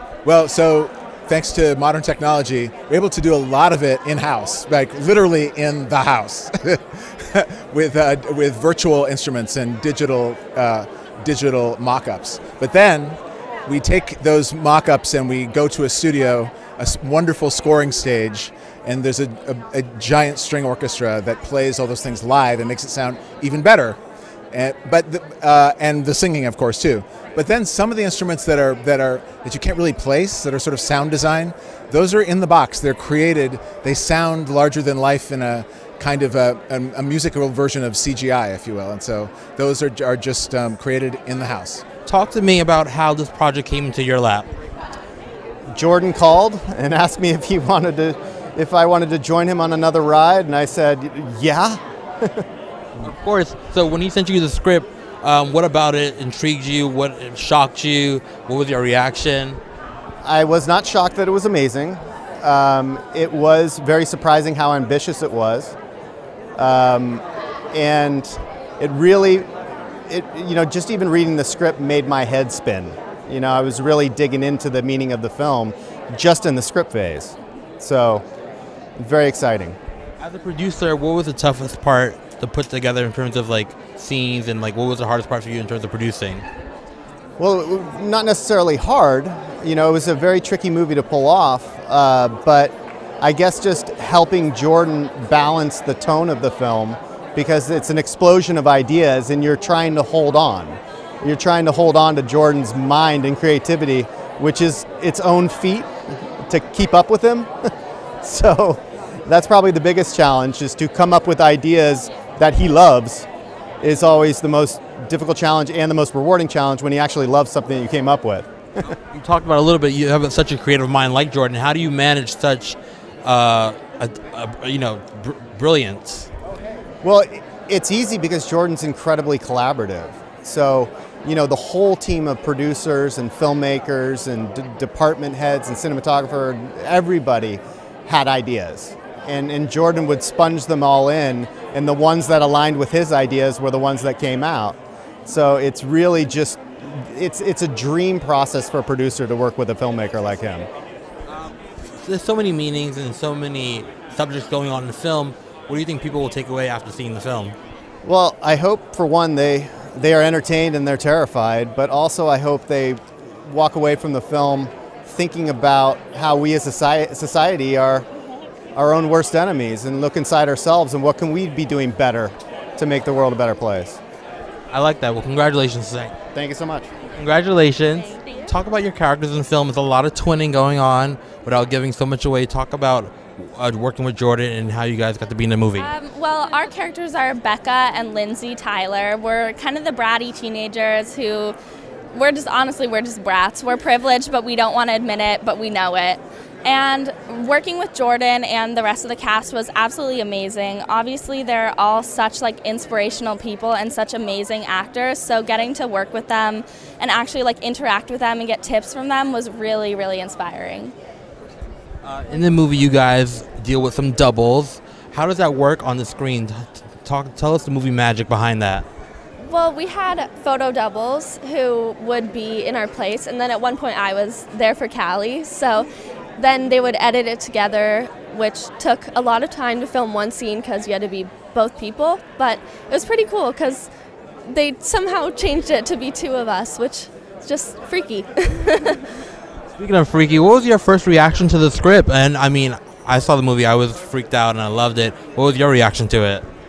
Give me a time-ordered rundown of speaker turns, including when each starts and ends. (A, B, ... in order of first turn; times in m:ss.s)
0:00.2-0:24.0 A
0:24.5-0:41.8 A
0:42.0-0:44.5 B
0:45.7-0:52.4 C
0:53.0-0:59.6 B
1:00.2-1:05.7 C
1:06.6-1:09.5 C
1:10.1-1:18.2 C
1:19.0-1:19.8 C
1:20.2-1:26.4 B
1:27.4-1:47.5 C
1:48.2-1:53.3 C
1:53.8-1:58.5 C
1:58.8-2:06.3 B
2:07.0-2:30.7 C
2:31.2-2:37.6 B
2:38.0-2:48.0 C
2:48.8-2:54.0 C
2:54.7-2:56.1 B
2:56.3-2:56.9 C
2:57.1-3:05.9 B
3:05.8-3:11.6 D
3:12.1-3:30.9 D
3:32.0-3:38.8 B
3:39.4-3:53.9 E
3:54.4-3:59.1 E
3:59.8-4:06.4 B